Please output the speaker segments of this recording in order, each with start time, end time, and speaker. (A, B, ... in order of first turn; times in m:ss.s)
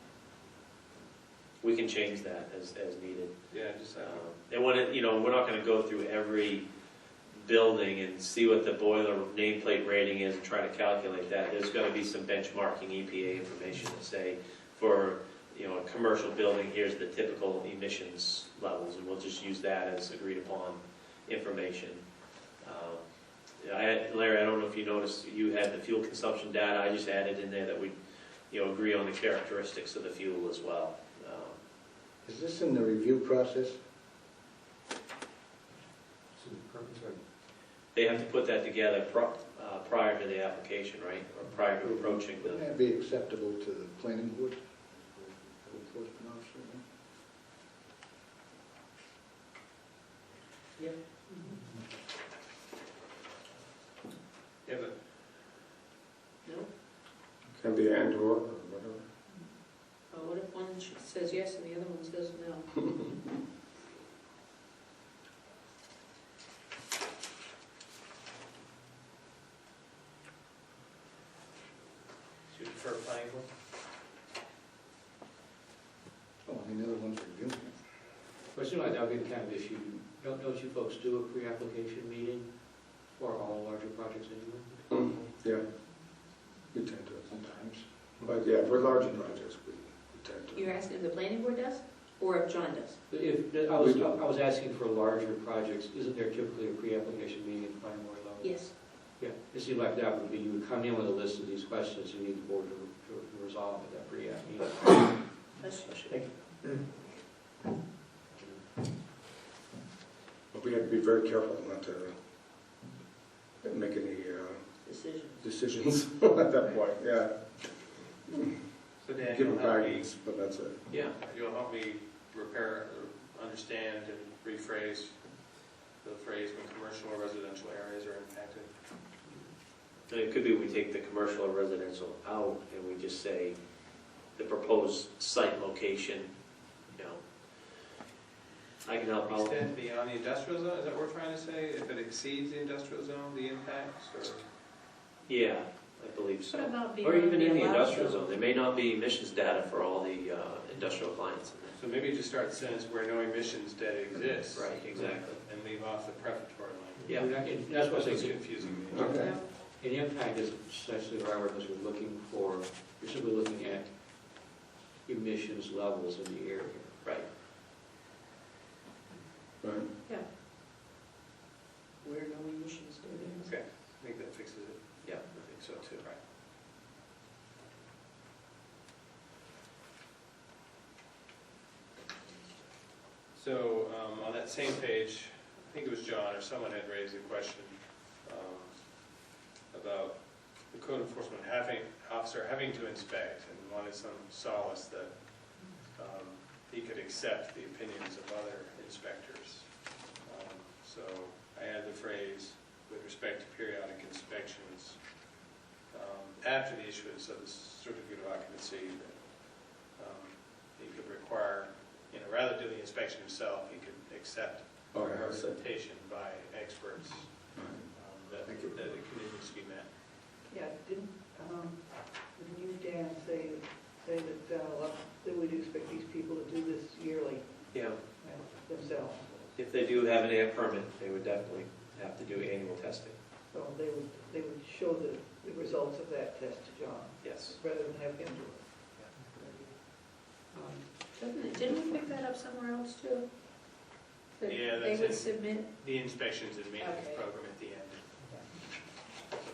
0:01.6-0:03.4 A
0:03.5-0:04.2 B
0:04.0-0:06.6 A
0:07.3-0:22.0 A
0:22.6-0:27.9 A
0:28.5-0:31.6 A
0:32.2-0:33.8 C
0:36.3-0:37.2 D
0:37.9-0:42.6 A
0:41.8-0:46.8 C
0:54.6-0:54.9 B
0:57.6-0:59.0 E
1:00.1-1:02.6 F
1:12.5-1:13.4 B
1:16.4-1:17.7 C
1:18.5-1:24.8 D
1:24.9-1:25.6 E
1:26.7-1:27.3 E
1:27.3-1:29.4 C
1:28.2-1:30.8 E
1:30.5-1:33.0 F
1:33.1-1:45.4 D
1:33.8-1:34.1 E
1:38.4-1:38.7 F
1:45.6-1:45.9 F
1:45.9-1:46.2 A
1:48.4-1:48.6 D
1:50.5-1:52.1 E
1:53.6-1:54.6 E
1:54.8-1:55.4 F
1:55.4-1:58.5 E
1:59.0-2:00.1 B
1:59.3-2:00.9 E
2:00.9-2:01.2 A
2:00.9-2:08.7 B
2:10.1-2:16.4 A
2:16.9-2:17.2 A
2:18.8-2:19.6 A
2:19.2-2:24.4 B
2:25.3-2:31.8 A
2:26.5-2:28.2 F
2:31.8-2:39.2 B
2:34.5-2:35.4 A
2:37.0-2:38.6 D
2:38.6-2:39.4 E
2:39.5-2:47.0 D
2:49.6-2:49.9 E
2:52.0-2:53.5 F
2:53.4-2:56.2 B
2:55.0-2:56.0 A
3:03.3-3:25.3 B
3:25.9-3:39.9 B
3:34.9-3:35.5 E
3:37.5-3:37.8 E
3:40.5-3:49.6 G
3:47.7-3:48.0 A
3:49.6-3:53.2 A
3:53.5-3:58.6 G
3:57.2-3:57.6 A
4:00.5-4:01.1 D
4:01.2-4:03.2 F
4:04.4-4:05.7 F
4:04.4-4:08.2 B
4:06.8-4:07.2 F